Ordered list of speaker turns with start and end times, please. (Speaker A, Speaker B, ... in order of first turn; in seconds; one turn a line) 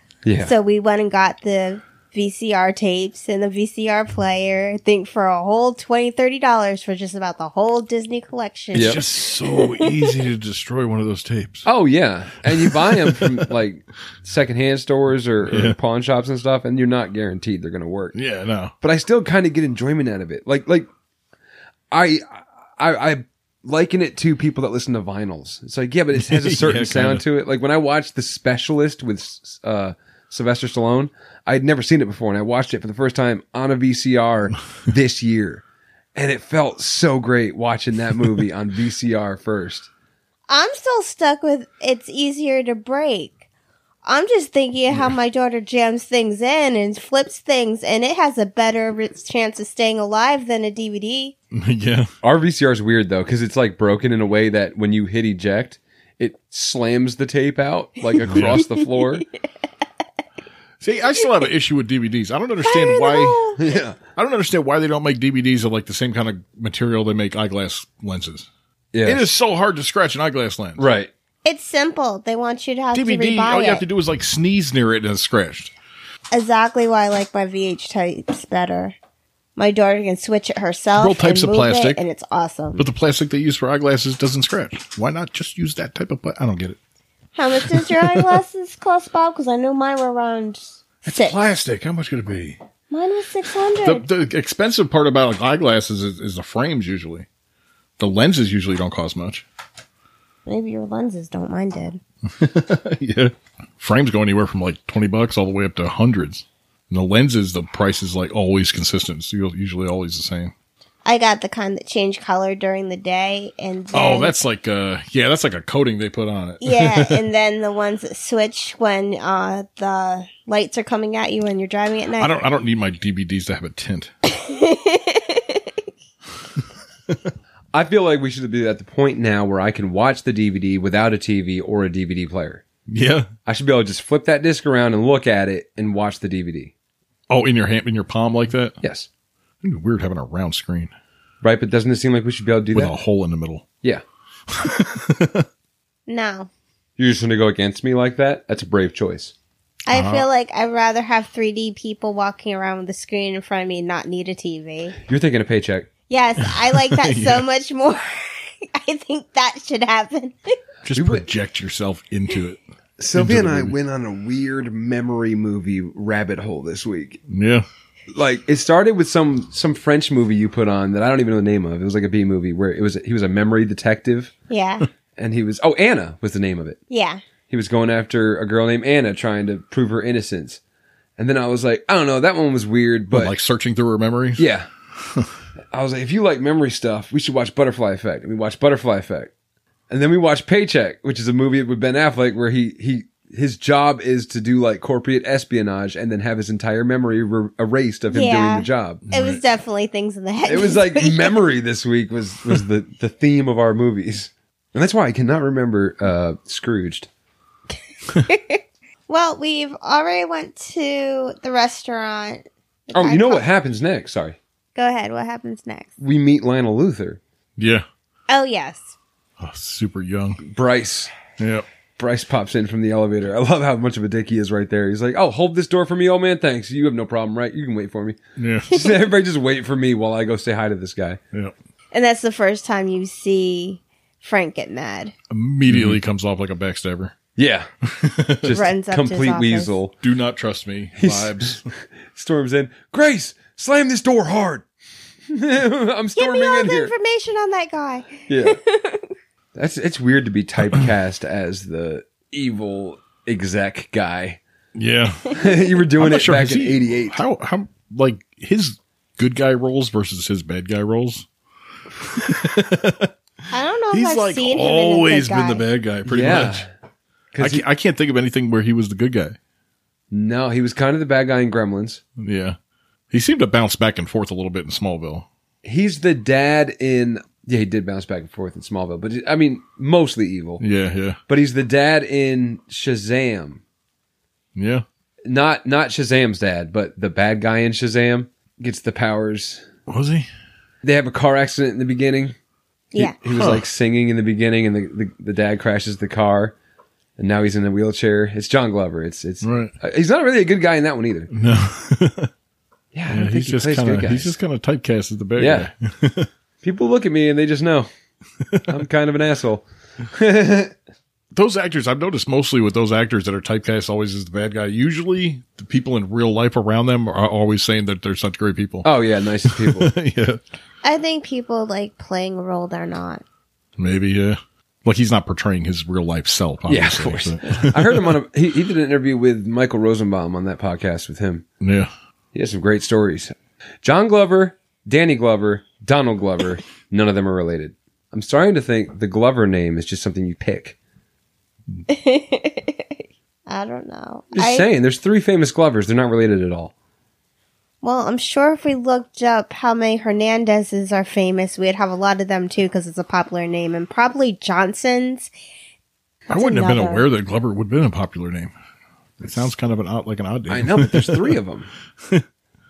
Speaker A: 0.2-0.5
Speaker B: 0.4-10.2
Speaker A: 8.7-9.0
Speaker C: 8.7-11.7
Speaker A: 11.7-18.2
Speaker C: 12.4-13.5
Speaker C: 15.5-15.8
Speaker C: 18.1-18.7
Speaker A: 18.8-20.9
Speaker A: 21.9-35.6
Speaker C: 26.1-27.2
Speaker A: 36.1-39.9
Speaker B: 40.5-43.4
Speaker B: 44.0-51.4
Speaker C: 51.5-52.1
Speaker A: 52.2-59.3
Speaker B: 58.2-59.1
Speaker C: 58.3-58.6
Speaker C: 60.8-63.4
Speaker B: 62.6-63.6
Speaker A: 63.6-64.0
Speaker C: 64.1-68.5
Speaker A: 68.9-69.3
Speaker C: 69.0-70.8
Speaker A: 70.8-71.1
Speaker B: 71.5-73.8
Speaker C: 72.9-75.7
Speaker B: 76.3-79.0
Speaker B: 79.6-82.8
Speaker C: 81.0-82.0
Speaker C: 82.8-86.8
Speaker B: 87.3-91.4
Speaker C: 87.7-88.4
Speaker C: 91.1-92.6
Speaker B: 92.9-94.0
Speaker C: 93.8-97.3
Speaker C: 98.0-99.5
Speaker B: 100.5-102.0
Speaker C: 102.3-110.5
Speaker B: 111.0-114.3
Speaker C: 113.9-117.2
Speaker B: 116.6-122.3
Speaker C: 122.2-124.1
Speaker B: 124.3-125.6
Speaker C: 126.6-127.3
Speaker A: 127.7-132.6
Speaker C: 132.9-133.3
Speaker A: 133.5-136.7
Speaker C: 137.3-138.8
Speaker A: 138.8-139.1
Speaker C: 139.6-140.9
Speaker A: 141.4-142.9
Speaker C: 142.8-143.6
Speaker C: 144.5-145.5
Speaker B: 146.1-146.5
Speaker A: 147.0-149.3
Speaker B: 149.9-155.0
Speaker C: 149.9-150.3
Speaker A: 155.0-155.9
Speaker B: 156.1-160.4
Speaker C: 156.4-157.5
Speaker C: 160.8-162.6
Speaker A: 160.9-161.3
Speaker A: 163.0-167.2
Speaker C: 163.2-163.8
Speaker C: 167.3-167.7
Speaker A: 168.2-174.3
Speaker B: 174.5-174.9
Speaker A: 175.2-176.8
Speaker B: 176.9-177.2
Speaker A: 177.5-180.6
Speaker A: 181.2-183.3
Speaker C: 183.1-184.4
Speaker A: 184.4-184.7
Speaker C: 185.0-185.3
Speaker A: 185.7-189.3
Speaker A: 189.9-199.0
Speaker B: 198.1-201.4
Speaker C: 199.1-199.4
Speaker A: 200.5-207.1
Speaker B: 208.2-213.4
Speaker A: 212.9-214.4
Speaker B: 214.8-215.9
Speaker A: 216.0-217.2
Speaker C: 217.6-217.9
Speaker B: 218.3-218.9
Speaker C: 219.4-220.4
Speaker A: 220.4-221.1
Speaker C: 221.4-221.7
Speaker A: 222.0-231.2
Speaker C: 228.4-228.9
Speaker B: 231.9-235.1
Speaker C: 235.3-237.2
Speaker A: 235.7-236.0
Speaker A: 237.4-237.7
Speaker C: 237.8-238.6
Speaker A: 238.4-240.0
Speaker B: 238.5-239.8
Speaker C: 240.0-241.7
Speaker A: 241.0-244.7
Speaker A: 245.3-246.9
Speaker B: 246.2-249.1
Speaker A: 248.3-248.6
Speaker A: 249.6-254.4
Speaker C: 254.8-255.4
Speaker A: 255.3-257.2
Speaker C: 256.0-261.3
Speaker C: 261.9-263.1
Speaker B: 263.5-265.6
Speaker C: 263.9-266.6
Speaker A: 266.1-266.7
Speaker A: 267.3-267.6
Speaker C: 267.4-269.4
Speaker A: 270.1-272.0
Speaker C: 272.2-272.6
Speaker C: 273.1-275.3
Speaker A: 275.6-280.6
Speaker C: 280.6-281.2
Speaker A: 281.3-283.6
Speaker C: 284.6-284.9
Speaker A: 285.3-289.7
Speaker C: 289.9-290.3
Speaker A: 290.8-292.4
Speaker A: 293.0-296.6
Speaker C: 293.1-293.6
Speaker A: 297.2-301.3
Speaker C: 299.4-299.7
Speaker C: 301.3-302.3
Speaker A: 302.9-304.4
Speaker C: 303.1-306.3
Speaker A: 305.4-305.7
Speaker A: 306.6-307.9
Speaker A: 308.6-310.7
Speaker C: 311.3-318.9
Speaker A: 318.8-319.9
Speaker C: 319.4-320.4
Speaker B: 320.8-323.2
Speaker C: 323.8-328.1
Speaker A: 326.7-331.4
Speaker C: 331.6-331.9
Speaker A: 332.3-340.8
Speaker B: 341.9-343.0
Speaker B: 343.5-344.7
Speaker A: 344.4-346.7
Speaker B: 347.8-355.3
Speaker B: 356.3-357.1
Speaker C: 356.3-358.5
Speaker C: 359.2-361.4
Speaker A: 360.5-361.7
Speaker C: 362.0-362.3